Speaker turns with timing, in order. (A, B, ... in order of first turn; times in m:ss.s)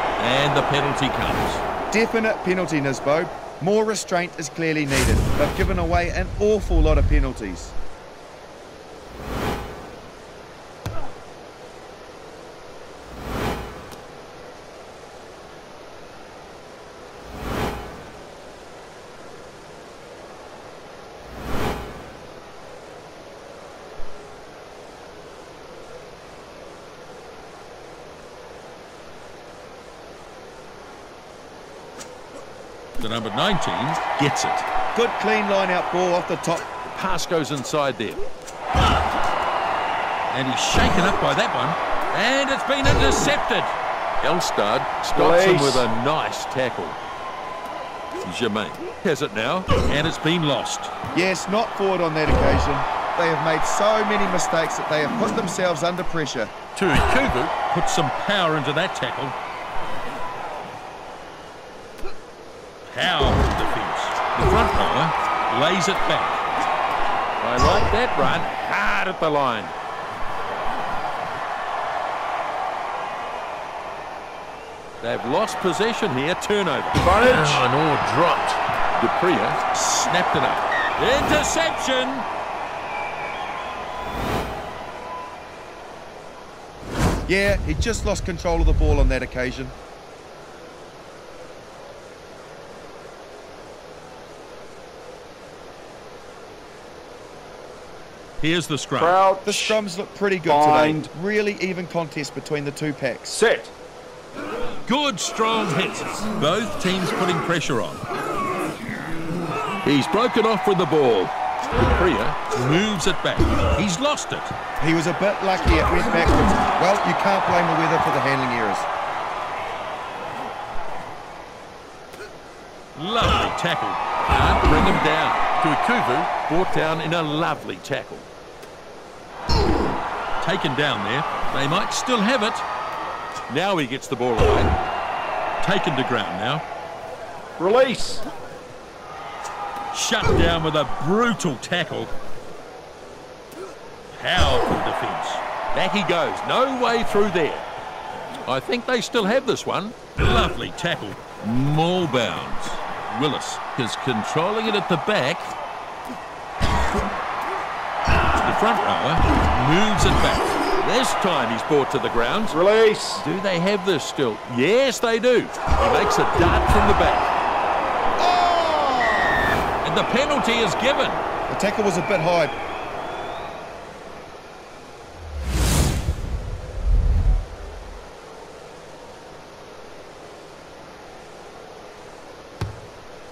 0:00.2-0:01.6 A
0:01.9-0:07.7 B
0:33.0-0:34.6 A
0:34.9-0:36.6 B
0:36.9-0:38.2 A
0:40.3-0:47.0 A
0:45.1-0:45.8 C
0:48.2-0:50.9 A
0:51.1-0:56.5 B
0:56.7-0:59.3 A
1:02.8-1:06.5 A
1:07.4-1:09.7 A
1:15.0-1:22.3 A
1:17.0-1:17.6 C
1:27.3-1:29.7 B
1:38.4-1:39.2 A
1:39.0-1:39.8 C
1:39.4-1:43.4 B
1:40.5-1:41.1 C
1:43.3-1:43.7 C
1:44.9-1:48.0 A
1:49.8-1:54.5 A
1:54.8-1:58.9 B
2:03.0-2:08.3 A
2:10.4-2:12.6 A
2:13.5-2:14.7 A
2:15.6-2:16.6 A
2:17.6-2:18.2 C
2:19.9-2:22.1 A
2:24.2-2:27.6 A
2:28.4-2:35.5 A
2:38.4-2:42.6 A
2:42.5-2:43.2 C
2:43.2-2:47.3 A
2:48.2-2:49.5 B
2:49.8-2:51.2 A
2:51.5-2:52.5 B